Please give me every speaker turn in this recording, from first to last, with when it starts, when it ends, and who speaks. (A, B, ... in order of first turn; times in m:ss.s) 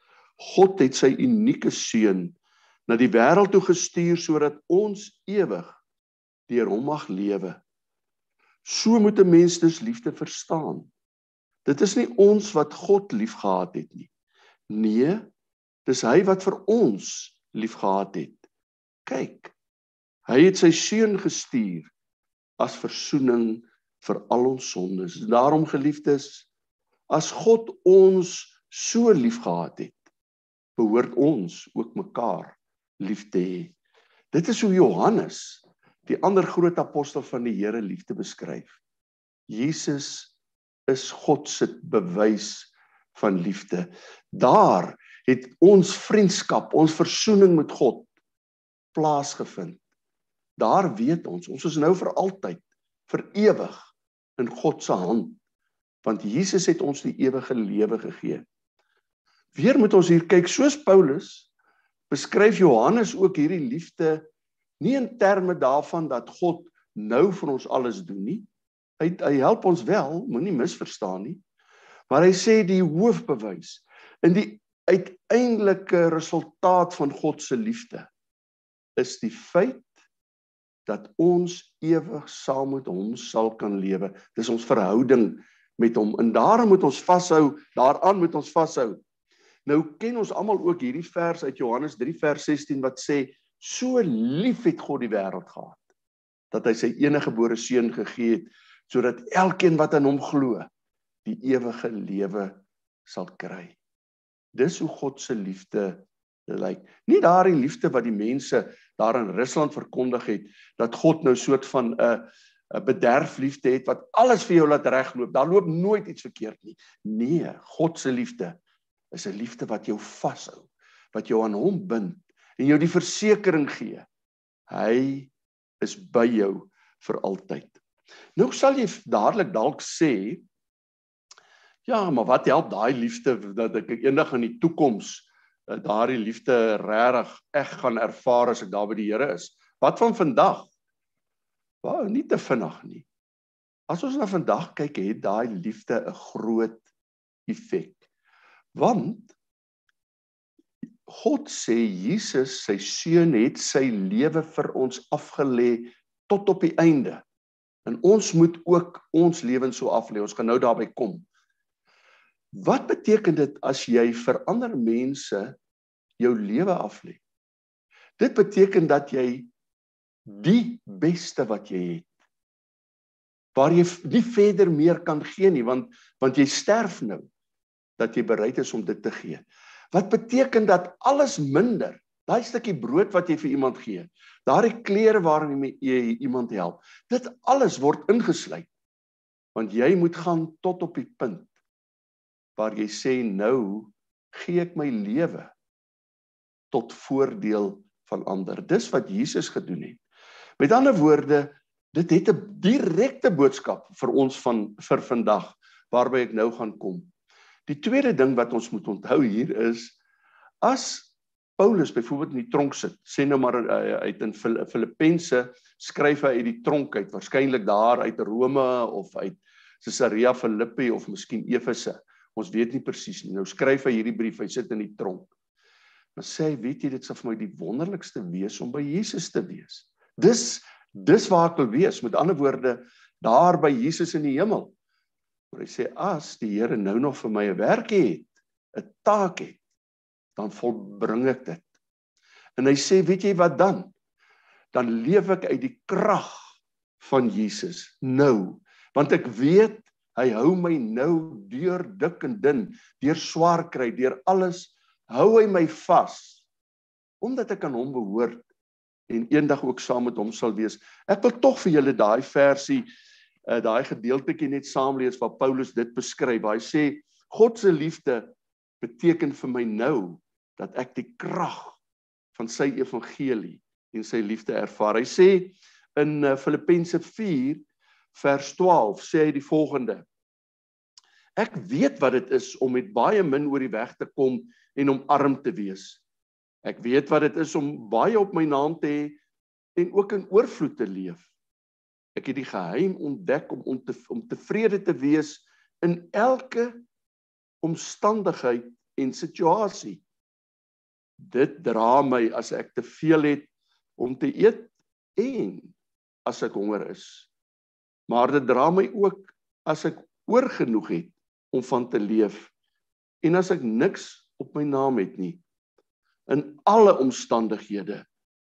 0:00.4-0:02.4 A
0:02.9-0:05.8 A
0:06.5-0:07.6 A
0:08.6-0:10.9 A
0:11.6-0:14.1 A
0:14.7-0:15.3 A
0:15.8-0:18.4 A
0:19.0-0:19.5 A
0:20.3-0:21.9 A
0:22.6-0:26.5 A
0:27.1-0:30.0 A
0:30.8-0:33.7 A
0:34.3-0:38.8 A
0:39.5-0:40.3 A
0:40.9-0:48.1 A
0:48.9-0:49.8 A
0:50.6-0:53.8 A
0:54.4-0:55.4 A
0:56.0-0:58.4 A
0:59.5-1:01.5 A
1:02.1-1:04.2 A
1:04.8-1:08.5 A
1:09.0-1:11.4 A
1:12.1-1:18.1 A
1:19.0-1:19.9 A
1:20.8-1:29.0 A
1:29.6-1:35.8 A
1:36.5-1:40.7 A
1:41.2-1:43.8 A
1:44.5-1:58.6 A
1:59.1-2:04.1 A
2:04.7-2:07.8 A
2:08.4-2:10.4 A
2:11.8-2:20.7 A
2:21.8-2:23.1 A
2:23.9-2:26.8 A
2:27.5-2:28.0 A
2:28.7-2:29.3 A
2:31.1-2:37.2 A
2:37.8-2:41.2 A
2:42.5-2:45.6 A
2:46.2-2:47.2 A
2:48.2-2:49.5 A
2:50.3-2:52.1 A
2:53.5-2:57.3 A
2:58.0-3:08.7 A
3:09.5-3:11.5 A
3:12.6-3:15.5 A
3:16.7-3:20.0 A
3:20.6-3:27.1 A
3:27.7-3:30.0 A
3:30.6-3:45.3 A
3:46.2-3:54.7 A
3:55.5-3:59.6 A
4:00.4-4:01.7 A
4:02.6-4:03.9 A
4:04.7-4:06.4 A
4:07.0-4:16.4 A
4:17.2-4:18.5 A
4:19.1-4:22.8 A
4:23.5-4:31.8 A
4:32.3-4:40.0 A
4:41.4-4:46.0 A
4:46.6-4:49.2 A
4:49.8-4:51.3 A
4:52.1-4:56.8 A
4:57.6-5:00.0 A
5:01.2-5:07.3 A
5:08.1-5:12.5 A
5:13.2-5:15.4 A
5:16.3-5:18.0 A